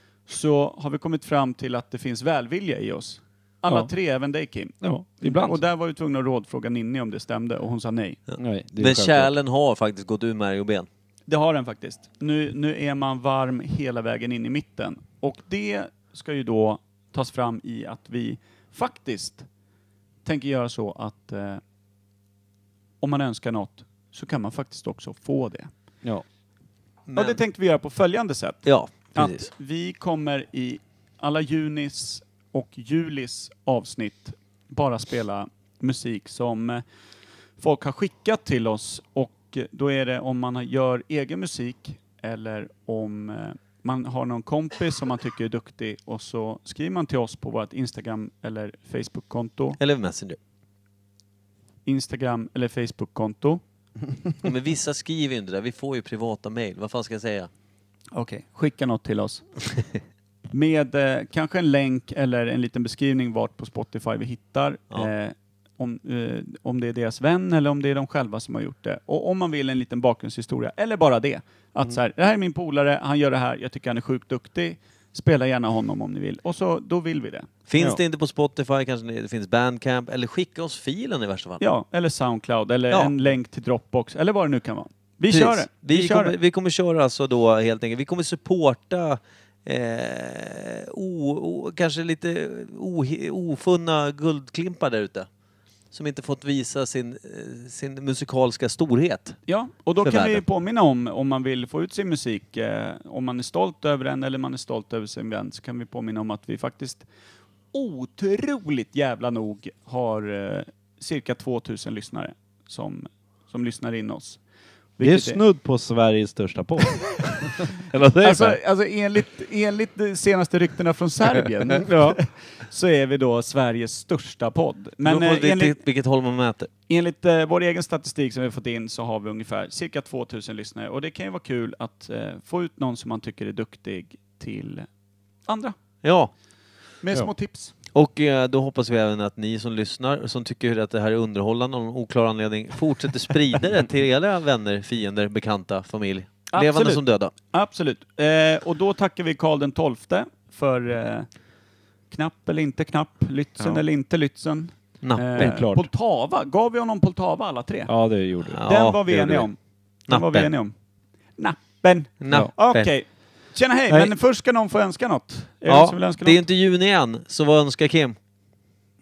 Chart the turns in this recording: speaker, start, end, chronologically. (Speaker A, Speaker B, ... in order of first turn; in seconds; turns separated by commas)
Speaker A: 0.3-8.2, Speaker B: 4.8-5.6, Speaker C: 8.3-10.9, Speaker B: 8.4-9.3, Speaker A: 11.3-19.5, Speaker A: 20.2-21.6, Speaker A: 23.0-25.7, Speaker C: 27.1-27.4, Speaker A: 27.2-36.8, Speaker C: 28.6-29.5, Speaker A: 37.6-49.8, Speaker C: 49.8-50.4, Speaker A: 51.9-53.6, Speaker C: 54.4-57.5, Speaker A: 58.1-59.6, Speaker A: 60.5-77.5, Speaker C: 77.7-81.6, Speaker A: 81.6-86.3, Speaker C: 85.3-95.3, Speaker C: 95.9-99.4, Speaker A: 99.5-107.1, Speaker C: 100.0-100.4, Speaker A: 107.7-114.4, Speaker A: 115.0-115.4, Speaker B: 115.0-118.6, Speaker A: 118.2-125.8, Speaker B: 121.8-122.2, Speaker C: 125.0-126.7, Speaker A: 126.9-134.9, Speaker A: 135.5-135.8, Speaker C: 136.0-136.3, Speaker A: 137.0-137.7, Speaker C: 137.9-147.3, Speaker A: 146.5-151.3, Speaker A: 152.1-157.9, Speaker C: 155.0-155.6, Speaker B: 155.4-155.9, Speaker B: 157.9-159.5, Speaker C: 158.5-159.3, Speaker A: 158.7-160.8, Speaker C: 160.1-160.5, Speaker A: 161.4-166.4, Speaker C: 162.2-162.9, Speaker C: 165.7-168.2